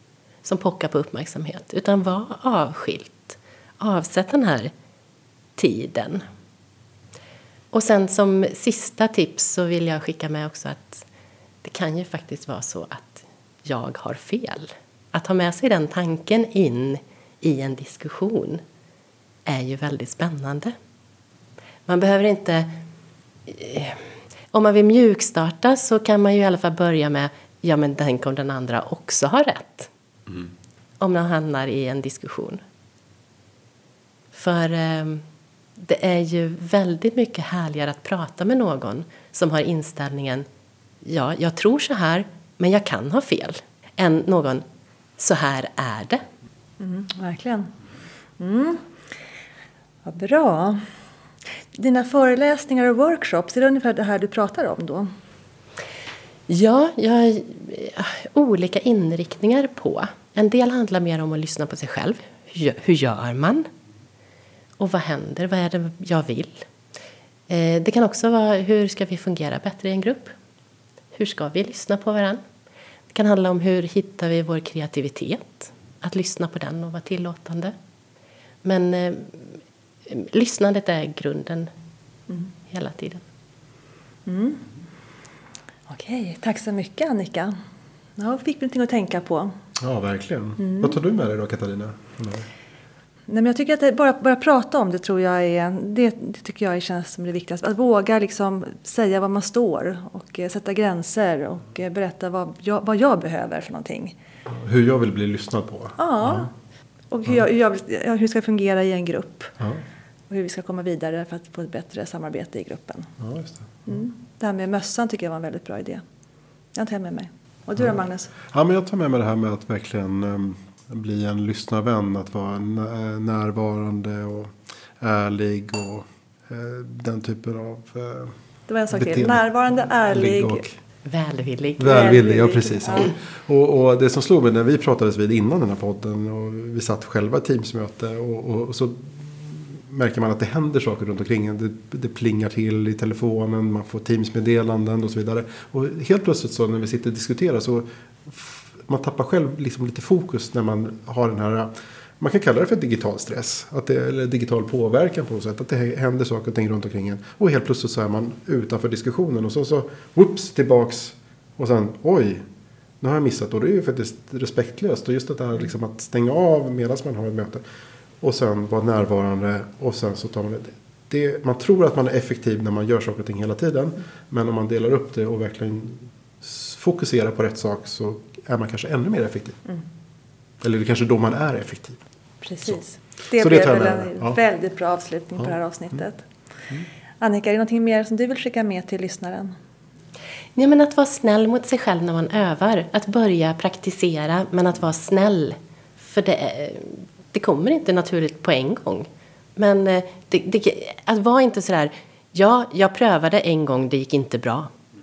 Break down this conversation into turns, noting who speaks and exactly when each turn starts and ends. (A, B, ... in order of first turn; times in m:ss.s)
0:00.4-0:04.7 A
0:05.6-0:06.2 A
0:07.7-0:11.1 A
0:11.6-0:18.6 A
0:19.5-0:20.8 A
0:21.9-0:22.8 A
0:23.5-0:29.9 A
0:31.0-0:32.6 A
0:34.3-0:35.2 A
0:35.8-0:40.4 A
0:41.0-0:44.6 A
0:45.2-0:46.2 A
0:46.8-0:47.7 B
0:48.4-0:48.8 B
0:50.0-0:50.8 B
0:51.8-0:55.1 B
0:56.5-1:03.7 A
1:04.8-1:06.7 A
1:07.5-1:10.4 A
1:11.1-1:12.4 A
1:13.1-1:17.7 A
1:18.6-1:21.7 A
1:22.7-1:23.2 A
1:24.3-1:24.7 B
1:25.9-1:27.6 B
1:28.2-1:29.5 B
1:29.8-1:32.5 C
1:30.6-1:30.9 B
1:33.3-1:44.2 B
1:44.5-1:46.5 C
1:46.0-1:46.5 B
1:47.1-1:49.6 B
1:50.3-1:53.1 B
1:53.2-1:54.0 C
1:53.9-1:56.0 B
1:56.7-1:58.3 B
1:58.4-2:08.4 C
2:08.7-2:10.6 B
2:08.9-2:09.4 C
2:10.1-2:10.8 C
2:11.0-2:12.1 A
2:11.8-2:42.4 C
2:11.8-2:13.1 B
2:43.0-2:47.6 C
2:48.2-2:59.6 C
3:00.6-3:02.0 C
3:02.4-3:06.2 B
3:03.4-3:04.4 C
3:07.2-3:09.5 B
3:10.6-3:24.7 A